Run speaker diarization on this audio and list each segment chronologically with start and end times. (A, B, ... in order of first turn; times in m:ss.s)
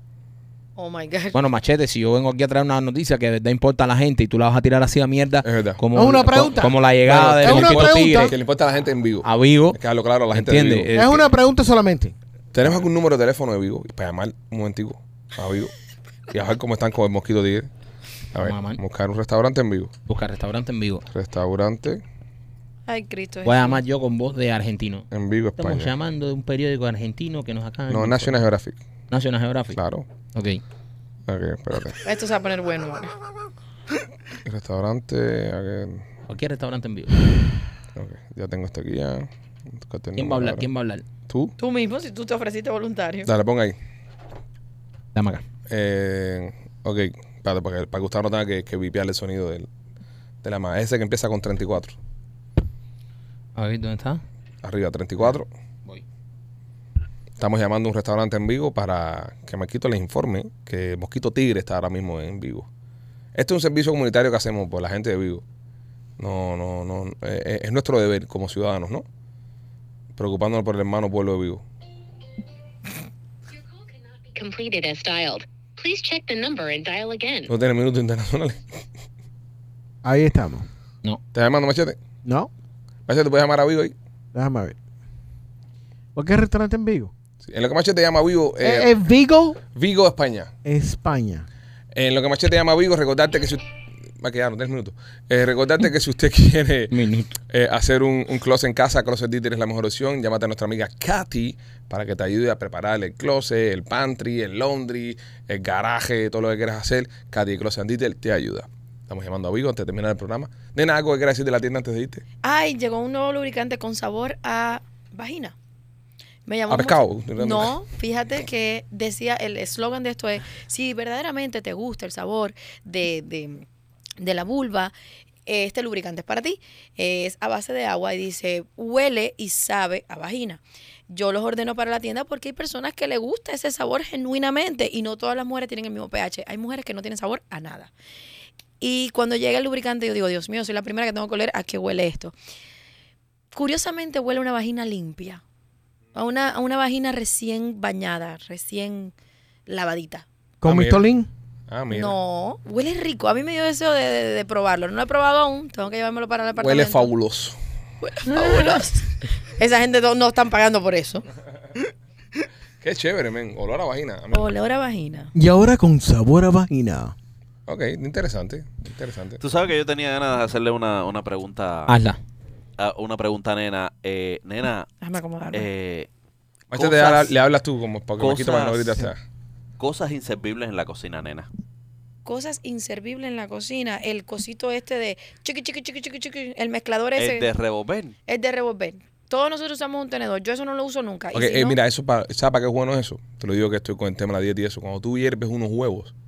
0:00.8-0:01.4 A
0:01.3-0:08.4 B
0:05.4-0:05.8 C
0:05.9-0:08.3 D
0:07.0-0:10.9 C
0:09.2-0:09.8 B
0:10.3-0:11.2 B
0:10.9-0:12.1 D
0:12.5-0:15.7 C
0:16.3-0:17.7 C
0:18.3-0:19.9 C
0:18.4-0:18.8 B
0:20.1-0:21.0 B
0:21.1-0:22.0 C
0:22.9-0:23.8 A
0:23.4-0:25.0 B
0:25.1-0:25.9 C
0:25.6-0:28.4 B
0:27.9-0:28.8 C
0:29.1-0:29.8 B
0:29.7-0:30.0 C
0:30.3-0:30.6 B
0:31.3-0:32.0 C
0:32.0-0:33.1 A
0:34.4-0:36.0 C
0:36.3-0:37.2 B
0:38.0-0:40.7 C
0:40.2-0:41.0 B
0:41.3-0:41.5 C
0:41.6-0:43.3 A
0:43.2-0:43.8 C
0:45.1-0:45.4 B
0:45.7-0:49.7 C
0:50.4-0:52.0 C
0:53.6-0:54.2 B
0:54.6-0:55.5 C
0:57.4-1:02.7 C
1:03.3-1:05.4 C
1:06.2-1:09.0 C
1:10.2-1:11.6 C
1:13.5-1:17.5 E
1:17.5-1:18.6 C
1:20.0-1:20.7 D
1:21.3-1:22.0 C
1:22.2-1:22.5 D
1:23.1-1:23.9 C
1:24.3-1:24.8 D
1:26.1-1:27.1 D
1:27.4-1:28.9 C
1:28.6-1:29.6 D
1:29.7-1:30.5 C
1:30.6-1:31.5 D
1:31.9-1:33.6 C
1:34.2-1:37.0 C
1:36.9-1:37.4 B
1:37.5-1:52.2 C
1:52.4-1:55.5 A
1:56.5-2:03.6 A
1:56.7-1:57.7 C
2:04.2-2:04.9 A
2:05.5-2:17.9 A
2:18.8-2:22.3 A
2:23.5-2:25.4 A
2:26.1-2:29.1 A
2:29.7-2:30.2 A
2:30.6-2:31.3 D
2:30.6-2:31.0 C
2:31.7-2:32.2 C
2:31.9-2:37.1 A
2:36.6-2:37.6 C
2:38.0-2:41.2 A
2:42.8-2:44.5 C
2:44.3-2:45.3 A
2:45.3-2:47.1 D
2:47.7-2:49.4 C
2:49.4-2:52.0 F
2:51.9-2:52.2 B
2:52.8-2:54.9 F
2:55.0-2:55.7 A
2:55.5-2:56.1 F
2:56.7-2:59.2 C
2:56.7-2:57.3 F
2:58.2-2:59.1 F
2:59.8-3:01.5 F
3:02.2-3:07.5 A
3:07.2-3:08.1 F
3:08.3-3:11.8 A
3:11.3-3:16.1 C